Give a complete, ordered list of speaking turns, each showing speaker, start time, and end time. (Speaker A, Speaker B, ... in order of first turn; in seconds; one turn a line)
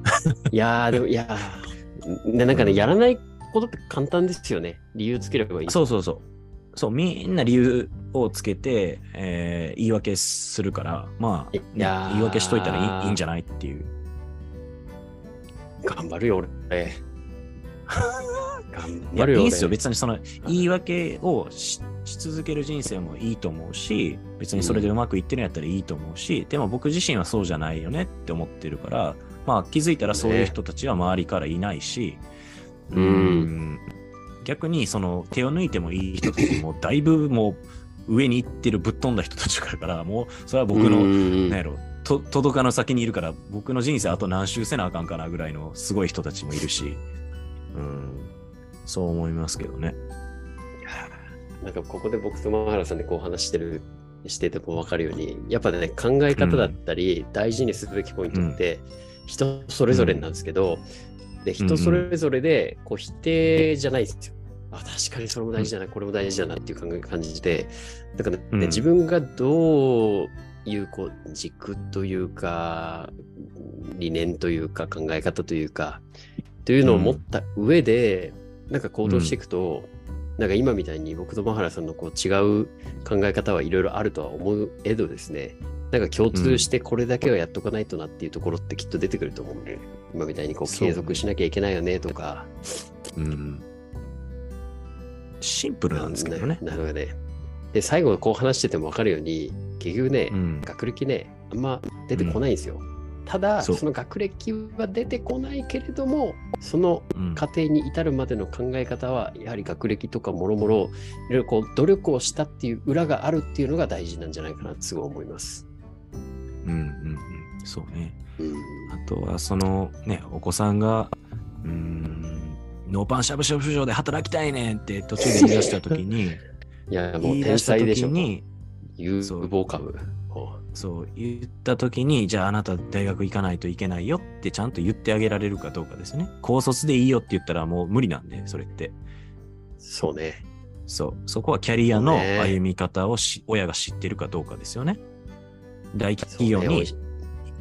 Speaker A: 0.5-5.8
Speaker B: 2.5-2.9
Speaker B: 5.7-13.9
Speaker A: 11.5-13.2
Speaker A: 15.8-17.0
Speaker A: 18.7-19.8
Speaker B: 19.1-32.2
Speaker A: 24.5-24.9
Speaker A: 30.0-30.6
Speaker B: 32.9-33.8
Speaker A: 32.9-33.5
Speaker B: 34.4-47.0
Speaker A: 40.7-41.6
Speaker B: 47.7-48.3
Speaker B: 48.9-50.0
Speaker A: 50.8-60.9
Speaker B: 56.4-56.8
Speaker B: 58.3-58.6
Speaker B: 59.9-60.3
Speaker A: 61.4-76.0
Speaker B: 61.6-62.0
Speaker B: 68.5-68.9
Speaker A: 76.6-92.5
Speaker B: 76.8-77.2
Speaker B: 79.0-79.4
Speaker B: 86.3-86.7
Speaker B: 90.6-91.2
Speaker B: 93.2-93.6
Speaker B: 95.4-96.6
Speaker A: 95.9-97.2
Speaker A: 97.7-115.6
Speaker B: 100.3-100.7
Speaker B: 102.1-102.4
Speaker B: 107.1-107.4
Speaker B: 116.6-118.2
Speaker A: 118.4-118.9
Speaker B: 118.9-126.4
Speaker A: 126.9-128.3
Speaker B: 127.2-128.4
Speaker A: 129.0-130.6
Speaker B: 129.2-129.5
Speaker B: 130.7-139.0
Speaker A: 139.8-140.4
Speaker B: 140.9-145.0
Speaker A: 141.9-142.6
Speaker B: 145.9-146.9
Speaker A: 146.3-147.0